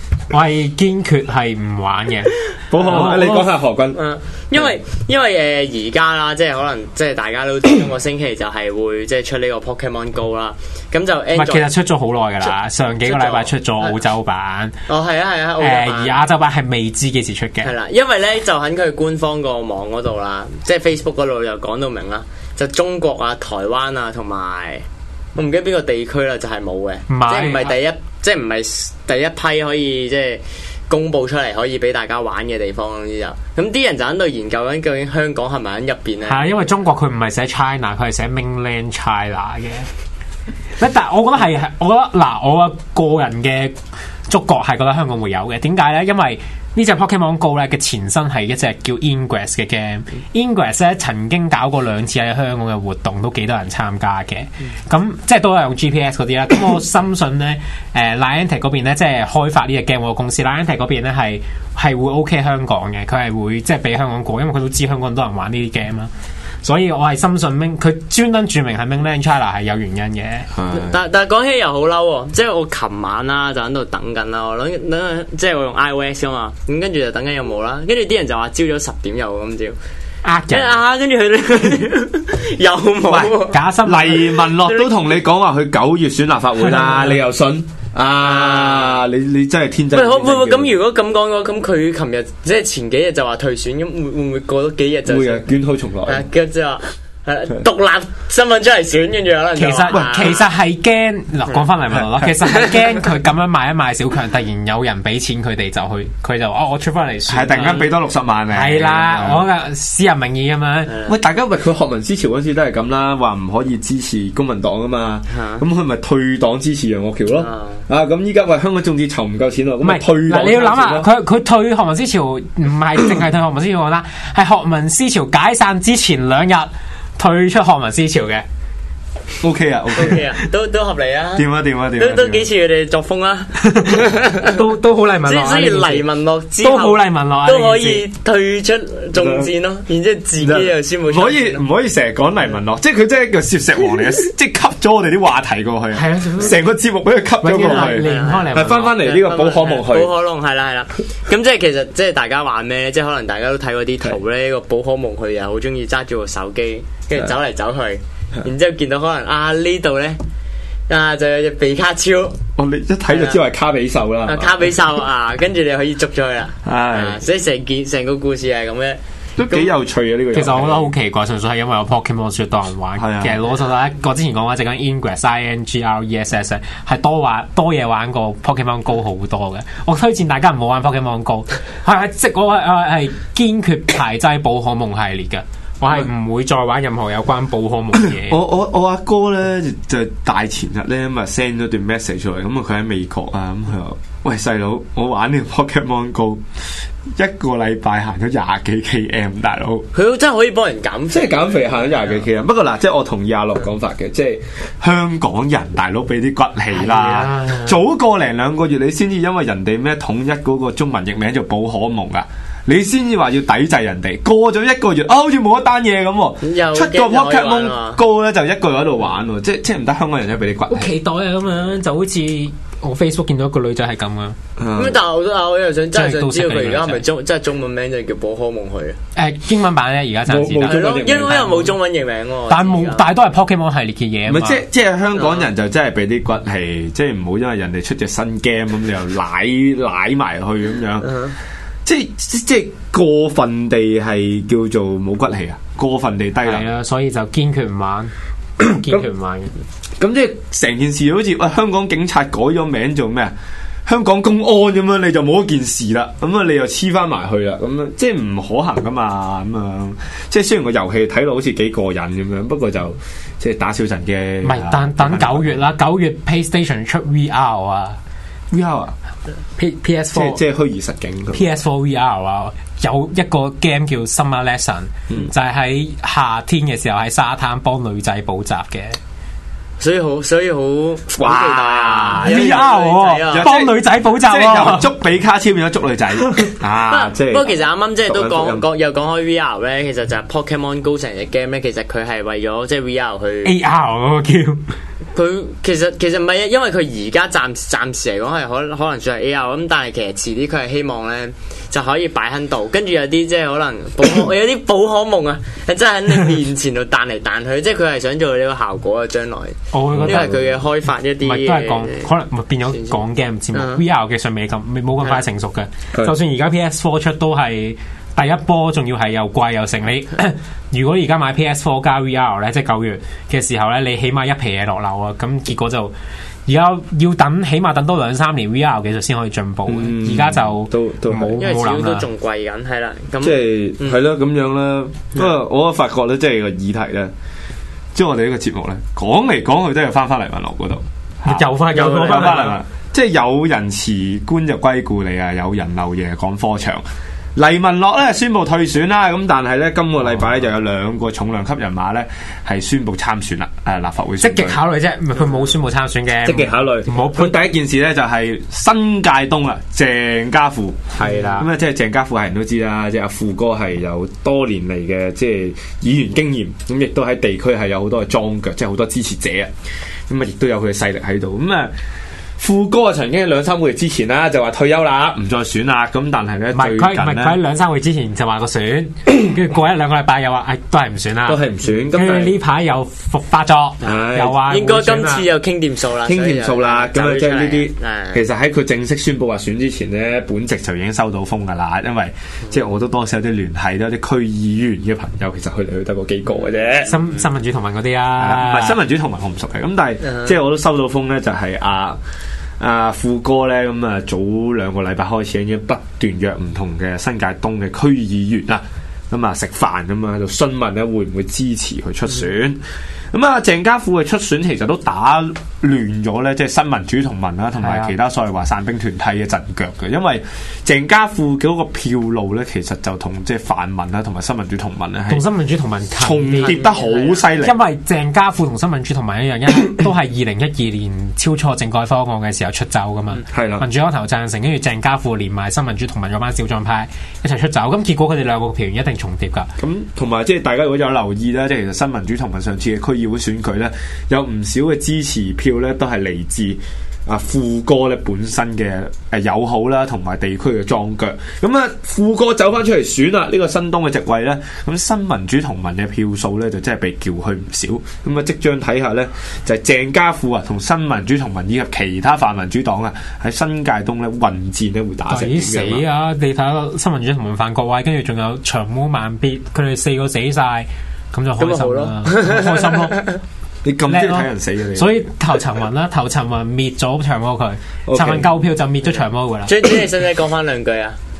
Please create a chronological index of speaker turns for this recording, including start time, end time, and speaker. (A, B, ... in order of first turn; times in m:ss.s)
0:00.3-0:03.5 A
0:02.7-0:04.0 B
0:02.9-0:03.3 C
0:03.9-0:11.7 C
0:11.3-0:14.8 A
0:13.0-0:14.0 C
0:14.9-0:16.2 C
0:15.6-0:17.7 A
0:17.6-0:36.5 C
0:27.1-0:27.8 A
0:36.2-0:39.9 A
0:40.8-1:06.1 A
1:06.6-1:10.5 A
1:10.5-1:11.0 B
1:10.7-1:19.8 C
1:20.2-1:20.8 A
1:20.5-1:23.6 C
1:23.1-1:30.7 B
1:23.5-1:24.4 A
1:24.6-1:25.1 C
1:26.6-1:27.2 A
1:28.2-1:29.0 C
1:29.9-1:35.4 C
1:35.1-1:36.2 B
1:36.1-1:40.4 C
1:39.6-1:48.0 A
1:39.9-1:40.2 B
1:47.3-1:49.5 B
1:48.5-1:51.0 A
1:50.9-1:51.1 C
1:51.1-2:01.1 B
1:55.3-1:55.6 C
1:57.4-1:57.8 C
1:59.8-2:08.5 A
2:09.4-2:10.2 B
2:10.0-2:11.5 C
2:11.4-2:12.5 B
2:12.0-2:14.6 C
2:13.6-2:16.1 A
2:15.2-2:21.6 C
2:16.6-2:18.1 A
2:19.2-2:19.5 B
2:20.4-2:30.1 B
2:25.9-2:26.6 A
2:27.4-2:29.0 A
2:27.6-2:40.2 C
2:40.9-2:42.4 C
2:42.6-2:44.7 B
2:43.1-2:43.4 C
2:44.3-2:49.7 C
2:46.6-2:47.2 B
2:49.4-2:50.9 B
2:50.3-3:08.4 A
2:53.0-2:53.4 B
3:08.0-3:16.4 B
3:17.2-3:19.9 B
3:19.9-3:22.1 C
3:21.1-3:40.9 B
3:26.7-3:27.8 A
3:36.4-3:38.0 C
3:40.7-3:44.4 A
3:44.6-3:45.0 B
3:44.8-3:49.0 C
3:45.9-3:47.0 A
3:49.2-3:51.7 A
3:50.3-3:51.7 B
3:50.6-3:53.1 C
3:52.5-3:54.6 A
3:54.3-4:01.1 B
3:55.2-3:55.5 C
4:01.0-4:01.3 C
4:01.8-4:06.7 B
4:06.4-4:09.5 A
4:08.6-4:09.1 B
4:10.0-4:13.3 B
4:13.9-4:25.6 B
4:24.4-4:28.0 A
4:28.5-4:29.0 B
4:29.6-4:30.4 A
4:30.1-4:31.5 B
4:31.3-4:39.0 A
4:39.8-4:43.5 C
4:41.1-4:42.7 B
4:42.2-4:44.9 A
4:43.3-4:47.5 B
4:46.9-4:53.6 C
4:48.1-4:48.6 B
4:53.4-4:54.6 A
4:55.2-5:12.1 C
5:09.7-5:10.4 A
5:09.9-5:10.4 B
5:11.2-5:25.9 A
5:12.7-5:13.0 C
5:13.5-5:13.8 C
5:26.5-5:32.1 A
5:29.7-5:31.4 B
5:31.4-5:34.0 C
5:33.2-5:37.1 B
5:38.0-5:46.8 B
5:41.2-5:42.6 A
5:47.4-5:54.6 B
5:54.2-5:57.4 A
5:56.2-6:09.5 B
6:00.9-6:01.5 A
6:10.1-6:11.7 B
6:12.4-6:17.4 B
6:16.5-6:25.3 A
6:21.3-6:22.4 B
6:23.8-6:24.4 B
6:24.5-6:28.2 C
6:26.0-6:36.9 B
6:36.9-6:38.8 A
6:38.2-6:42.0 B
6:40.0-6:40.3 C
6:42.6-7:05.2 B
6:57.6-6:57.9 A
7:05.1-7:06.6 A
7:06.0-7:07.6 B
7:06.4-7:07.3 C
7:07.4-7:19.5 A
7:13.3-7:13.6 B
7:19.6-7:45.8 B
7:45.1-7:53.0 A
7:51.4-7:53.2 C
7:53.6-7:55.1 B
7:53.9-7:59.6 A
7:57.9-7:58.3 B
7:59.5-8:01.0 C